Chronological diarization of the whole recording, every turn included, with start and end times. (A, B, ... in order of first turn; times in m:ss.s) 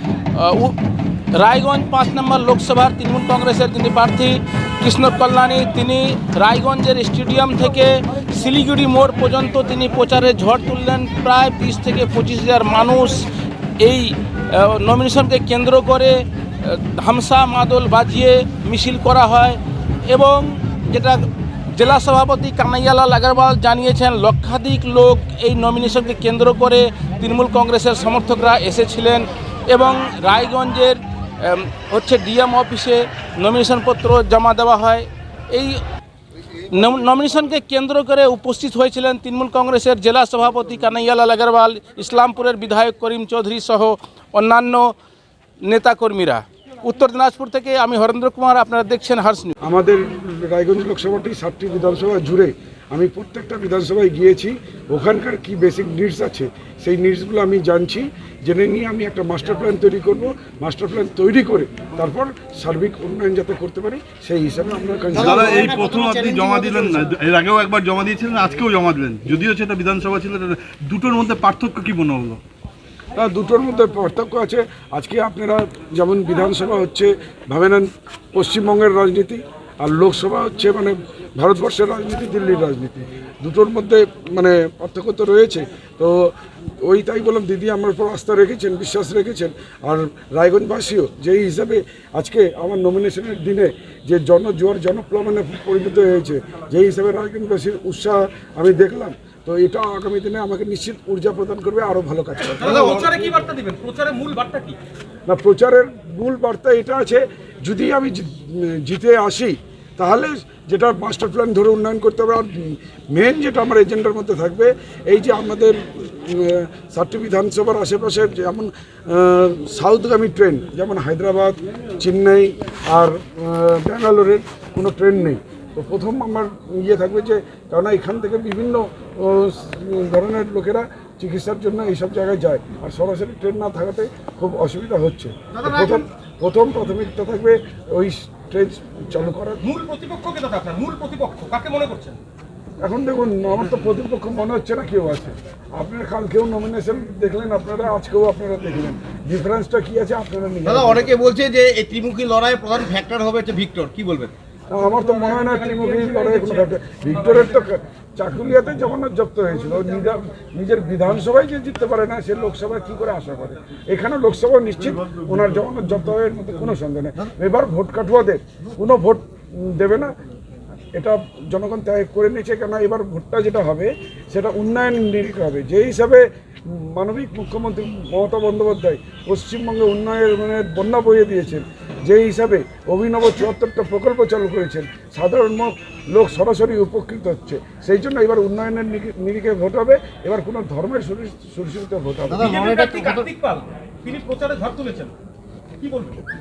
0:00.3-0:00.8 A
0:01.3-0:13.3 A
0:13.8-0:35.8 A
0:36.7-0:44.9 A
0:45.6-0:49.5 A
0:49.6-1:05.7 B
1:05.1-1:07.1 C
1:05.2-1:12.4 D
1:13.2-1:43.1 B
1:42.6-1:43.2 C
1:42.7-1:44.8 E
1:43.0-1:43.4 D
1:45.3-2:19.6 B
2:19.7-2:22.1 E
2:20.1-2:21.2 D
2:22.8-2:31.1 B
2:30.7-2:34.3 C
2:34.7-2:50.1 B
2:50.9-3:12.6 B
3:12.3-3:13.3 C
3:12.5-3:15.1 E
3:12.6-3:13.2 D
3:15.8-3:16.2 E